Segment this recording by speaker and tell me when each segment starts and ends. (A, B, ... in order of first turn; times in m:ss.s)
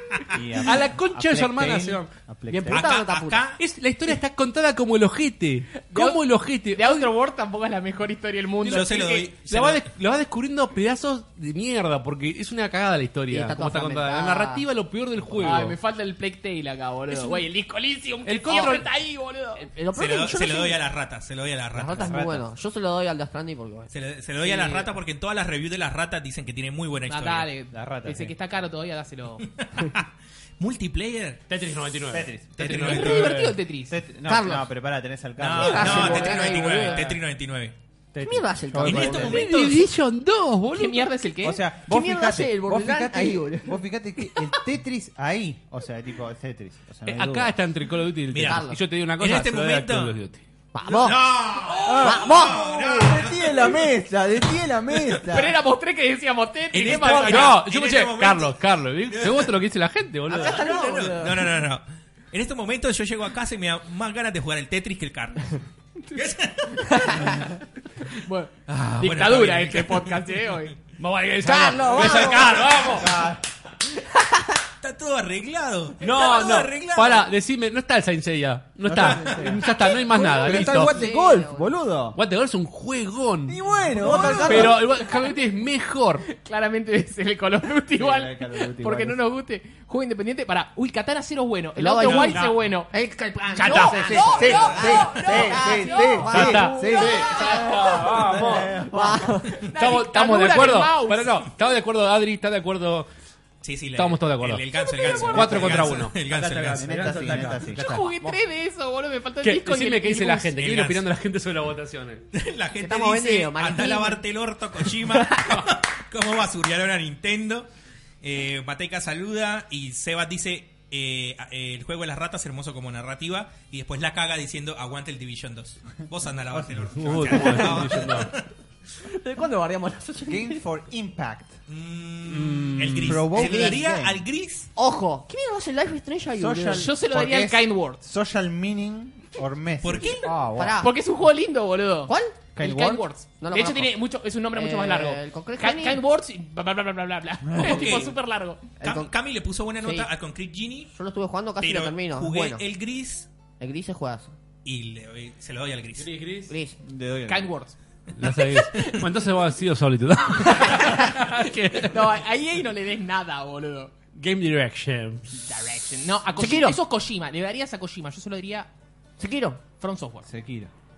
0:00.3-0:02.9 A
0:00.6-0:02.1 B
0:02.5-0:03.4 C
0:02.7-0:03.6 D
0:03.6-0:07.1 B
0:05.9-0:09.3 E
0:08.6-0:15.8 B
0:08.7-0:09.9 D
0:13.3-0:14.6 C
0:15.4-0:19.7 E
0:17.1-0:17.4 C
0:18.2-0:18.9 B
0:18.5-0:18.8 C
0:19.6-0:20.8 C
0:19.9-0:22.2 D
0:21.7-0:23.9 C
0:22.0-0:22.5 A
0:23.9-0:27.5 D
0:24.4-0:24.9 E
0:27.1-0:29.5 E
0:27.7-0:28.3 A
0:29.4-0:30.1 D
0:30.6-0:31.4 D
0:31.5-0:33.6 B
0:32.1-0:33.3 A
0:32.6-0:33.3 D
0:32.6-0:34.0 E
0:33.9-0:37.2 A
0:34.2-0:34.7 C
0:35.4-0:37.8 D
0:35.5-0:37.1 C
0:38.1-0:39.5 A
0:38.2-0:39.8 C
0:38.8-0:39.8 D
0:39.2-0:41.2 B
0:40.7-0:41.6 E
0:41.4-0:47.6 A
0:41.8-0:44.5 C
0:47.0-0:50.4 B
0:48.3-0:50.2 D
0:48.4-0:48.8 C
0:50.7-0:53.2 C
0:50.8-0:53.8 D
0:51.8-0:55.6 A
0:55.2-0:57.6 E
0:56.7-0:59.6 D
0:56.8-1:00.8 B
1:00.3-1:01.5 C
1:00.3-1:05.6 D
1:06.1-1:07.4 D
1:06.7-1:07.5 E
1:08.0-1:10.8 E
1:08.7-1:09.2 B
1:09.0-1:10.6 D
1:11.0-1:13.2 B
1:11.4-1:12.8 C
1:11.9-1:13.0 D
1:12.8-1:13.4 A
1:14.1-1:14.4 C
1:14.8-1:17.3 D
1:16.0-1:21.0 B
1:18.8-1:22.2 A
1:19.8-1:21.7 C
1:22.1-1:26.2 B
1:23.5-1:24.8 A
1:23.9-1:24.8 C
1:24.0-1:25.4 E
1:26.2-1:32.9 E
1:28.0-1:29.2 A
1:31.8-1:39.7 C
1:32.0-1:32.5 D
1:33.5-1:37.7 E
1:33.8-1:37.3 A
1:34.1-1:35.1 D
1:36.3-1:38.8 B
1:38.2-1:39.4 A
1:39.6-1:41.5 E
1:39.6-1:43.1 B
1:43.6-1:47.5 D
1:43.9-1:48.4 B
1:44.8-1:45.5 E
1:45.3-1:45.9 A
1:46.7-1:47.9 A
1:47.7-1:50.6 E
1:49.4-1:52.2 B
1:50.6-1:51.0 D
1:52.3-1:57.7 D
1:52.8-1:54.2 C
1:54.9-1:55.5 C
1:58.2-2:08.5 D
2:06.5-2:07.7 A
2:07.0-2:08.3 B
2:07.4-2:07.9 C
2:09.0-2:10.6 C
2:10.2-2:11.6 A
2:11.7-2:14.7 D
2:12.3-2:13.3 B
2:13.0-2:14.2 A
2:13.3-2:13.8 C
2:14.8-2:16.9 C
2:16.4-2:20.8 A
2:16.7-2:18.0 E
2:19.8-2:20.3 D
2:20.4-2:21.0 C
2:20.8-2:28.6 E
2:22.1-2:22.4 C
2:22.5-2:23.0 A
2:23.4-2:24.0 C
2:24.5-2:26.0 C
2:27.4-2:27.9 A
2:27.6-2:28.2 D
2:28.8-2:29.1 C
2:28.8-2:30.9 D
2:29.8-2:30.1 C
2:30.9-2:32.6 C
2:31.6-2:33.3 D
2:33.6-2:34.3 C
2:34.6-2:36.1 D
2:36.0-2:36.5 B
2:36.5-2:36.8 C
2:36.8-2:37.5 A
2:37.3-2:37.8 E
2:38.2-2:42.1 B
2:38.6-2:39.0 E
2:40.4-2:43.9 E
2:44.1-2:45.3 B
2:45.4-2:48.7 E
2:46.4-2:46.8 C
2:49.2-2:49.6 C
2:49.8-2:50.3 E
2:50.2-2:50.7 A